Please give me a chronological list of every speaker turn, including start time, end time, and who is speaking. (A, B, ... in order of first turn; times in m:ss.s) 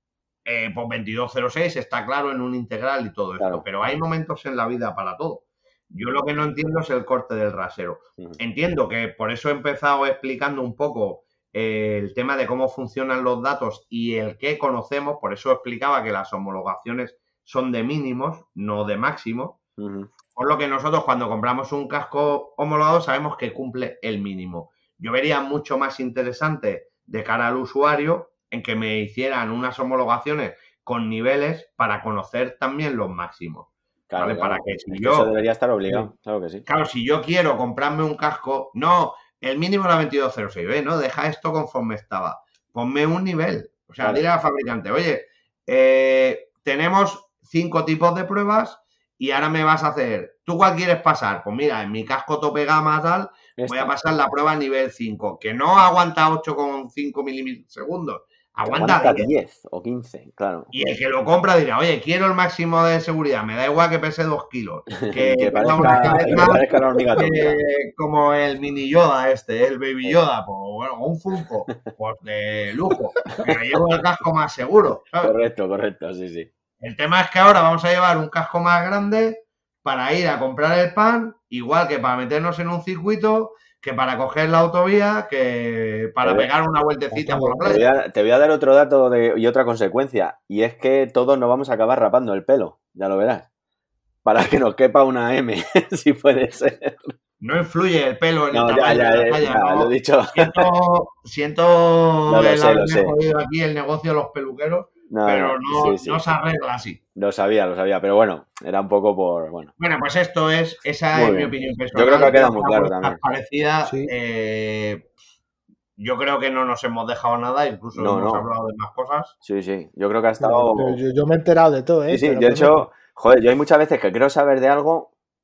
0:00.5-0:19.6 A
0:03.4-0:03.6 B
0:19.8-0:20.1 B
0:20.4-0:35.3 A
0:34.1-0:36.6 B
0:36.7-0:59.3 A
0:53.6-0:53.9 B
0:58.6-1:00.7 B
1:00.7-1:06.6 A
1:05.0-1:07.6 B
1:05.7-1:06.6 C
1:07.2-1:15.4 A
1:15.2-1:16.5 B
1:16.8-1:27.9 A
1:26.2-1:26.5 B
1:27.1-1:27.6 C
1:27.6-1:33.5 B
1:34.2-1:37.2 B
1:37.4-1:47.0 A
1:38.5-1:40.7 B
1:42.3-1:43.2 B
1:45.1-1:46.2 B
1:47.2-1:49.7 B
1:49.8-1:55.1 A
1:51.1-1:53.2 B
1:53.8-1:54.1 C
1:56.0-1:59.4 A
1:58.0-1:58.5 B
1:59.4-2:01.0 B
2:00.4-2:02.9 C
2:02.1-2:05.1 B